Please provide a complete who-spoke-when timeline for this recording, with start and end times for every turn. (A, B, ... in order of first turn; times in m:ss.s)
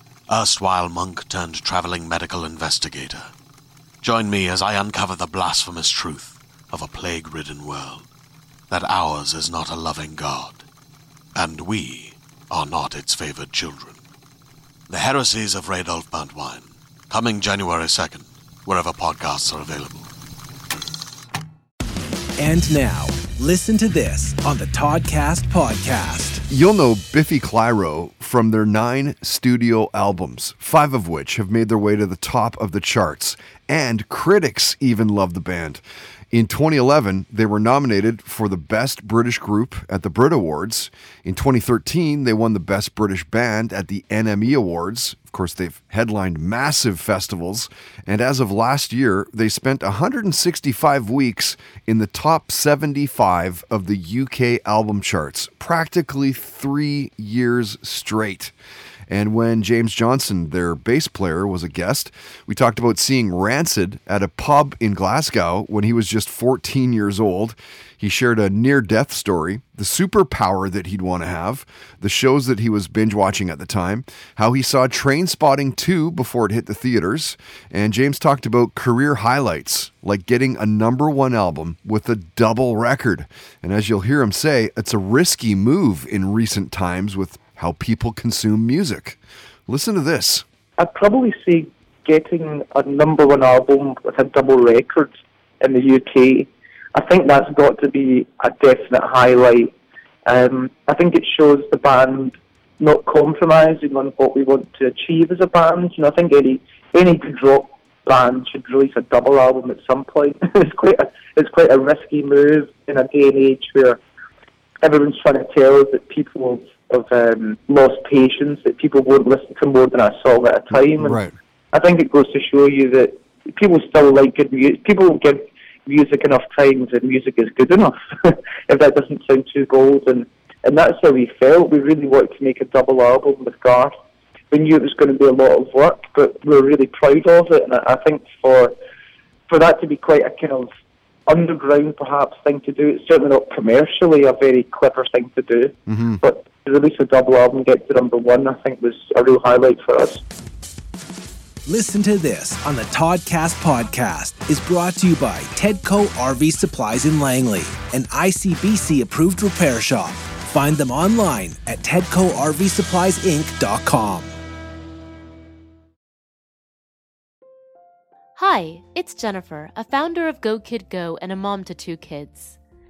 0:00.3-0:03.3 A
0:04.0-0:08.1 A
0:08.7-0:10.6 A
0:11.4-0:14.0 A
0:14.9-0:20.1 A
0:22.4-0:26.4 B
0:26.5-0:58.5 C
0:59.1-1:30.4 C
1:30.8-1:39.7 D
1:40.3-1:54.0 D
1:54.8-2:01.2 D
2:01.0-2:01.3 C
2:01.7-2:13.9 D
2:14.5-2:18.7 D
2:19.5-2:20.7 D
2:21.3-2:30.2 D
2:25.9-2:26.2 C
2:31.7-2:44.4 B
2:48.4-2:52.6 E